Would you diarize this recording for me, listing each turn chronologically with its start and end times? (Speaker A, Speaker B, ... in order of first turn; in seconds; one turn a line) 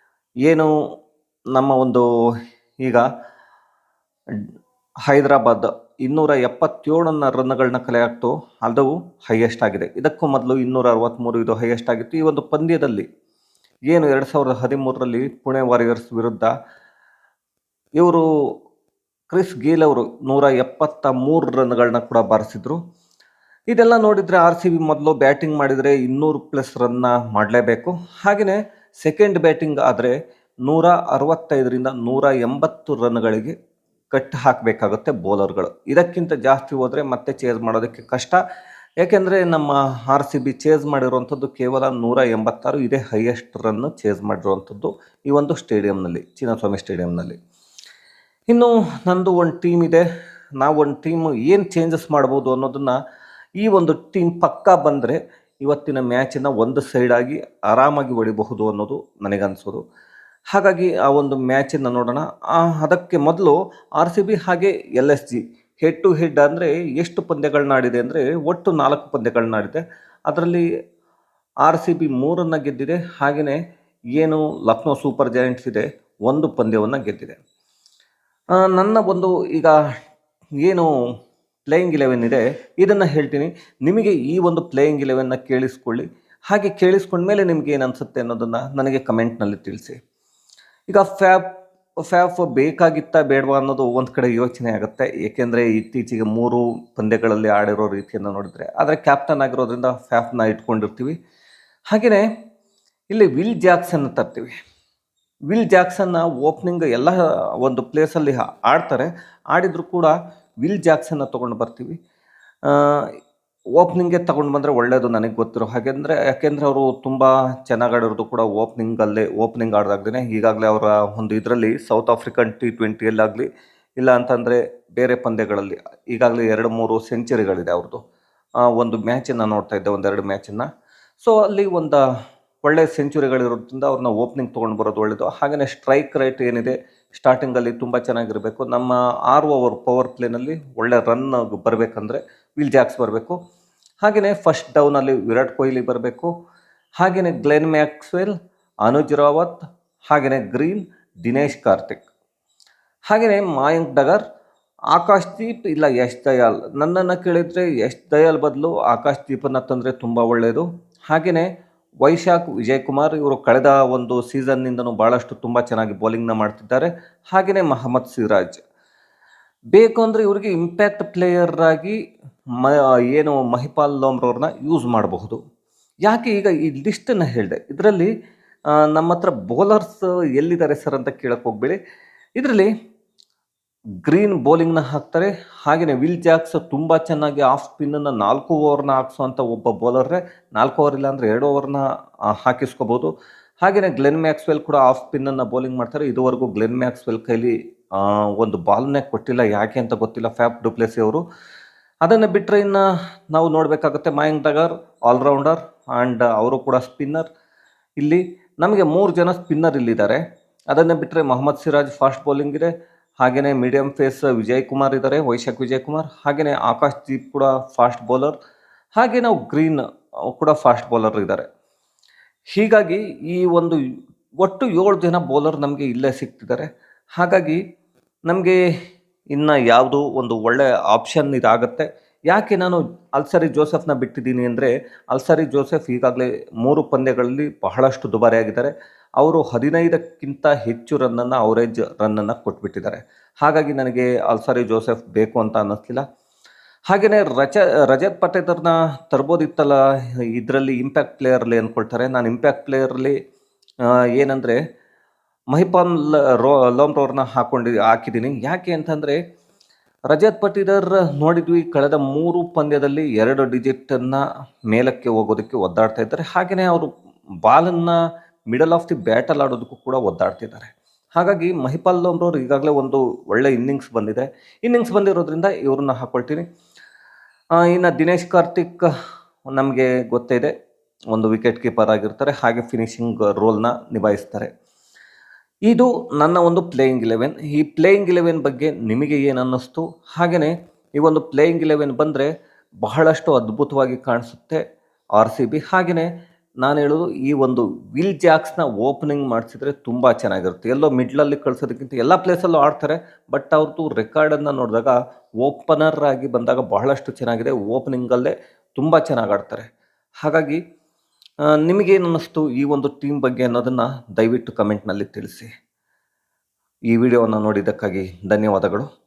Speaker A: 0.4-0.7
Speaker A: 1.5-2.0
Speaker A: 5.1-13.1
Speaker A: 13.9-16.5
Speaker A: 18.0-18.2
Speaker A: 19.3-22.8
Speaker A: 23.7-33.5
Speaker A: 34.1-38.4
Speaker A: 39.0-47.4
Speaker A: 48.5-50.0
Speaker A: 50.6-53.0
Speaker A: 53.6-59.8
Speaker A: 60.5-70.6
Speaker A: 71.6-73.6
Speaker A: 74.1-77.4
Speaker A: 78.6-79.8
Speaker A: 80.6-80.9
Speaker A: 81.7-90.0
Speaker A: 90.9-101.1
Speaker A: 101.9-102.2
Speaker A: 103.1-104.5
Speaker A: 105.5-112.0
Speaker A: 112.7-113.1
Speaker A: 113.7-123.5
Speaker A: 124.0-128.0
Speaker A: 128.7-130.7
Speaker A: 131.2-132.0
Speaker A: 132.6-143.4
Speaker A: 144.0-146.3
Speaker A: 147.0-148.3
Speaker A: 148.8-149.6
Speaker A: 150.1-152.0
Speaker A: 153.1-154.2
Speaker A: 154.9-161.5
Speaker A: 162.0-168.6
Speaker A: 169.7-172.0
Speaker A: 172.6-175.4
Speaker A: 176.0-178.1
Speaker A: 178.9-181.8
Speaker A: 182.4-182.7
Speaker A: 184.0-193.1
Speaker A: 193.6-201.2
Speaker A: 202.0-207.3
Speaker A: 208.0-218.3
Speaker A: 218.9-221.4
Speaker A: 222.5-223.8
Speaker A: 224.4-227.6
Speaker A: 228.3-228.6
Speaker A: 229.3-246.0
Speaker A: 246.9-249.8
Speaker A: 250.3-253.2
Speaker A: 254.1-254.6
Speaker A: 255.5-259.2
Speaker A: 260.1-266.9
Speaker A: 267.4-268.0
Speaker A: 268.5-276.4
Speaker A: 277.6-278.9
Speaker A: 279.5-280.5
Speaker A: 281.1-284.5
Speaker A: 285.6-292.3
Speaker A: 292.8-294.6
Speaker A: 295.1-296.1
Speaker A: 296.6-309.7
Speaker A: 310.2-310.6
Speaker A: 311.6-315.5
Speaker A: 316.9-318.9